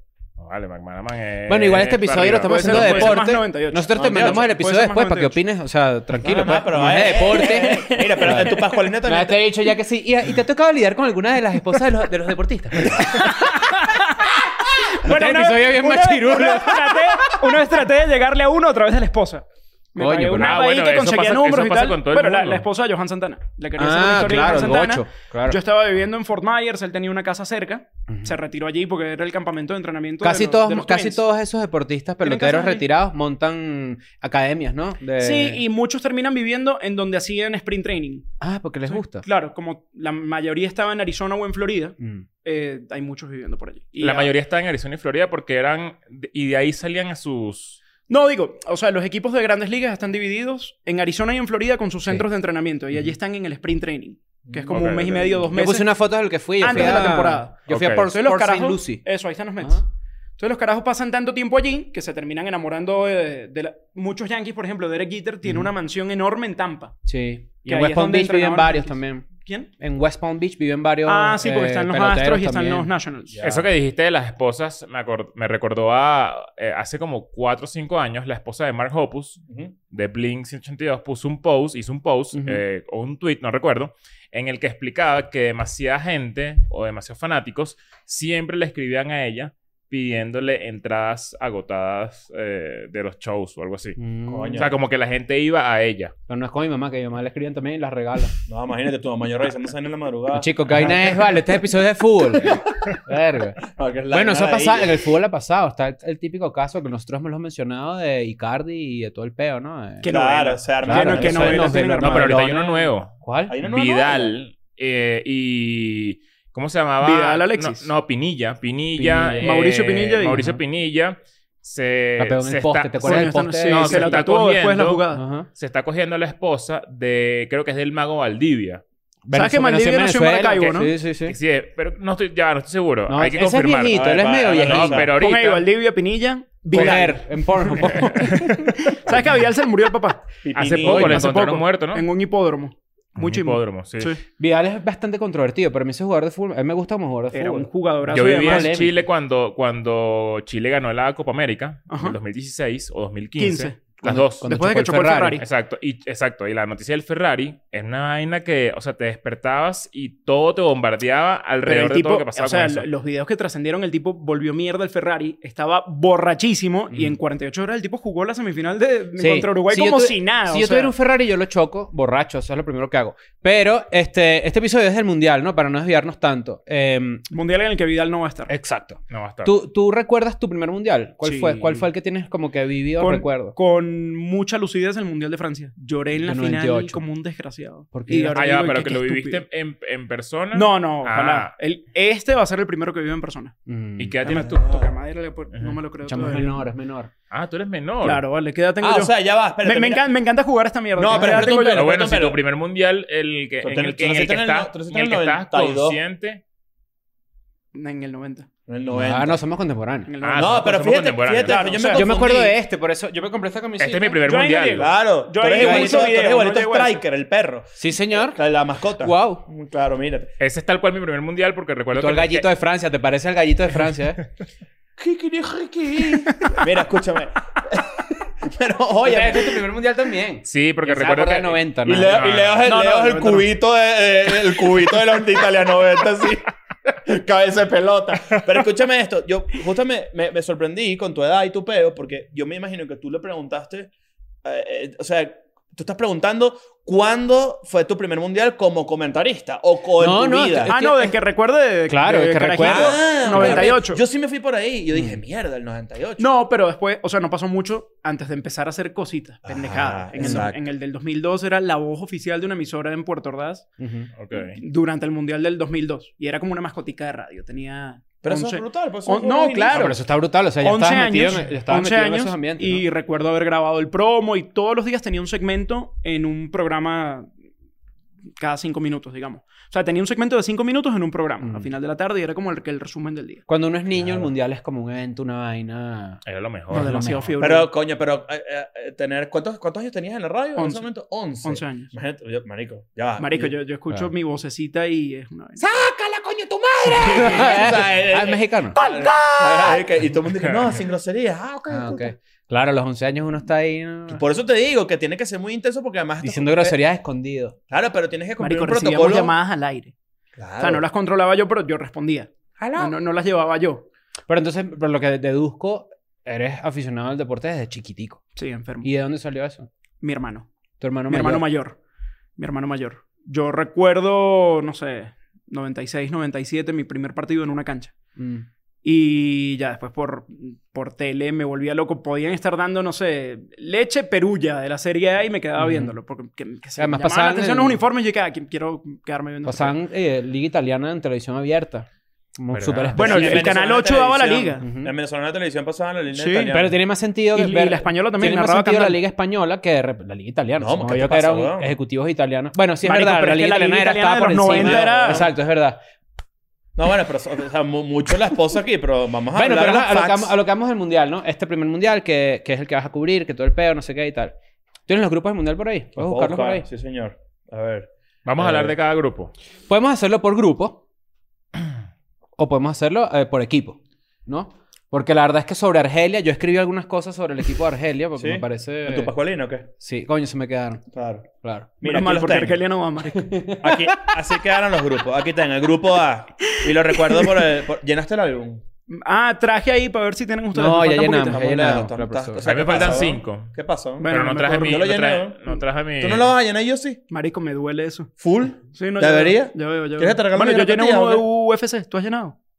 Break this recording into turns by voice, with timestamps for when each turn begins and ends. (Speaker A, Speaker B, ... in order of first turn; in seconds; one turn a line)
Speaker A: 0.4-3.2
Speaker B: 1.5-13.9
Speaker C: 2.5-5.4
Speaker D: 3.9-4.5
Speaker D: 6.2-9.4
Speaker C: 7.1-8.8
Speaker C: 12.8-31.2
Speaker B: 15.0-17.6
Speaker B: 20.0-20.6
Speaker A: 20.4-22.6
Speaker B: 23.8-25.6
Speaker B: 28.1-28.4
Speaker B: 30.2-35.6
Speaker C: 32.2-32.9
Speaker C: 35.2-38.3
Speaker B: 38.4-39.2
Speaker C: 38.9-44.3
Speaker B: 42.0-42.3
Speaker A: 44.0-47.8
Speaker C: 48.1-56.0
Speaker D: 54.5-55.4
Speaker A: 54.7-55.1
Speaker B: 55.5-59.0
Speaker C: 56.6-59.9
Speaker A: 57.7-58.1
Speaker C: 60.4-66.9
Speaker B: 67.1-69.3
Speaker C: 67.7-69.7
Speaker B: 69.8-72.9
Speaker C: 71.0-73.4
Speaker D: 73.3-73.7
Speaker A: 73.4-94.0
Speaker D: 79.5-79.7
Speaker B: 82.3-82.6
Speaker B: 94.0-94.7
Speaker D: 94.3-94.7
Speaker A: 94.5-96.1
Speaker B: 96.3-98.4
Speaker D: 98.5-101.4
Speaker B: 100.3-110.1
Speaker D: 102.5-103.0
Speaker D: 103.7-105.0
Speaker C: 110.0-112.7
Speaker D: 110.0-112.2
Speaker B: 110.8-113.5
Speaker A: 112.0-125.0
Speaker D: 113.5-114.3
Speaker C: 117.0-117.9
Speaker B: 119.0-119.5
Speaker C: 119.4-120.4
Speaker B: 122.2-124.2
Speaker C: 123.0-125.2
Speaker B: 125.1-125.5
Speaker A: 125.6-128.8
Speaker B: 129.2-131.4
Speaker C: 129.3-130.9
Speaker A: 131.3-134.1
Speaker B: 133.1-135.1
Speaker D: 133.9-135.1
Speaker A: 134.6-135.7
Speaker C: 135.2-144.2
Speaker B: 136.7-138.3
Speaker A: 138.0-138.6
Speaker D: 140.4-141.3
Speaker A: 140.6-142.0
Speaker A: 143.2-144.2
Speaker B: 144.4-148.9
Speaker C: 147.3-148.8
Speaker A: 148.1-154.5
Speaker C: 151.9-152.2
Speaker C: 153.4-153.9
Speaker B: 154.0-155.4
Speaker C: 154.4-155.4
Speaker A: 155.4-162.9
Speaker C: 161.7-170.9
Speaker B: 169.2-177.2
Speaker C: 177.3-178.5
Speaker B: 178.5-183.6
Speaker A: 179.1-179.6
Speaker C: 181.2-181.8
Speaker C: 183.0-189.4
Speaker B: 186.2-187.0
Speaker B: 187.9-188.5
Speaker A: 188.3-191.5
Speaker C: 190.5-193.5
Speaker B: 193.7-194.2
Speaker A: 194.0-194.9
Speaker C: 194.2-196.6
Speaker D: 194.4-194.9
Speaker B: 196.1-197.1
Speaker A: 197.3-198.2
Speaker C: 198.0-201.9
Speaker D: 198.8-200.0
Speaker D: 201.0-202.4
Speaker A: 201.7-206.4
Speaker D: 203.6-206.0
Speaker C: 207.7-208.5
Speaker D: 208.7-209.4
Speaker B: 208.9-210.1
Speaker C: 210.1-210.8
Speaker A: 210.2-211.7
Speaker D: 210.4-212.6
Speaker C: 211.4-212.1
Speaker B: 211.9-214.2
Speaker A: 213.8-214.9
Speaker C: 214.2-217.0
Speaker D: 214.8-220.3
Speaker B: 215.6-216.1
Speaker B: 217.8-218.4
Speaker B: 219.0-219.4
Speaker A: 220.4-222.5
Speaker B: 221.9-224.2
Speaker D: 225.0-229.7
Speaker B: 229.0-232.2
Speaker A: 230.5-232.8
Speaker D: 231.8-243.9
Speaker C: 232.7-233.5
Speaker D: 244.4-250.8
Speaker B: 250.0-251.1
Speaker C: 250.7-254.0
Speaker B: 251.9-253.8
Speaker D: 252.6-256.3
Speaker B: 254.9-255.2
Speaker C: 256.2-263.7
Speaker D: 259.4-260.6
Speaker B: 260.2-260.5
Speaker B: 263.8-264.1
Speaker A: 264.2-264.6
Speaker C: 264.4-270.0
Speaker D: 268.2-270.0
Speaker B: 269.7-272.9
Speaker C: 270.6-277.3
Speaker C: 278.4-283.4
Speaker B: 281.4-281.7
Speaker B: 283.5-287.4
Speaker D: 283.9-284.3
Speaker A: 286.3-287.0
Speaker C: 286.7-287.7
Speaker D: 287.4-293.5
Speaker C: 290.6-290.9
Speaker C: 291.4-291.9
Speaker C: 293.2-295.6
Speaker D: 295.6-302.1
Speaker B: 296.9-298.8
Speaker C: 298.8-299.7
Speaker A: 300.3-300.7
Speaker B: 301.7-304.2
Speaker D: 304.1-306.8
Speaker B: 306.2-307.6
Speaker D: 307.7-309.3
Speaker C: 308.4-309.9
Speaker D: 310.4-310.8
Speaker C: 310.6-313.9
Speaker B: 312.6-312.9
Speaker B: 314.3-318.2
Speaker C: 318.4-318.9
Speaker B: 318.8-319.7
Speaker C: 320.0-320.5
Speaker B: 320.8-321.5
Speaker C: 321.1-321.8
Speaker C: 322.4-327.9
Speaker B: 328.2-328.5
Speaker C: 328.8-339.8
Speaker B: 335.6-335.9
Speaker B: 336.8-337.8
Speaker B: 339.4-343.6
Speaker A: 342.5-343.1
Speaker D: 343.0-346.8
Speaker C: 343.0-344.6
Speaker B: 344.6-344.9
Speaker C: 346.1-346.6
Speaker B: 346.5-355.8
Speaker C: 347.3-349.0
Speaker D: 350.6-351.7
Speaker C: 352.8-355.2
Speaker D: 354.5-355.3
Speaker D: 356.8-360.3
Speaker B: 359.3-364.4
Speaker B: 364.9-366.7
Speaker D: 366.0-368.7
Speaker A: 368.2-369.3
Speaker B: 369.7-370.8
Speaker B: 372.4-379.1
Speaker D: 378.2-379.7
Speaker B: 379.8-380.8
Speaker D: 380.9-381.3
Speaker B: 381.4-381.7
Speaker D: 381.8-382.6
Speaker C: 381.8-383.3
Speaker B: 383.1-384.1
Speaker D: 383.6-388.6
Speaker C: 388.9-391.5
Speaker B: 390.5-393.0
Speaker D: 391.2-394.1
Speaker A: 392.4-396.3
Speaker C: 394.0-394.9
Speaker D: 394.6-395.4
Speaker D: 396.0-397.0
Speaker C: 397.1-398.1
Speaker D: 398.2-401.2
Speaker C: 398.7-402.4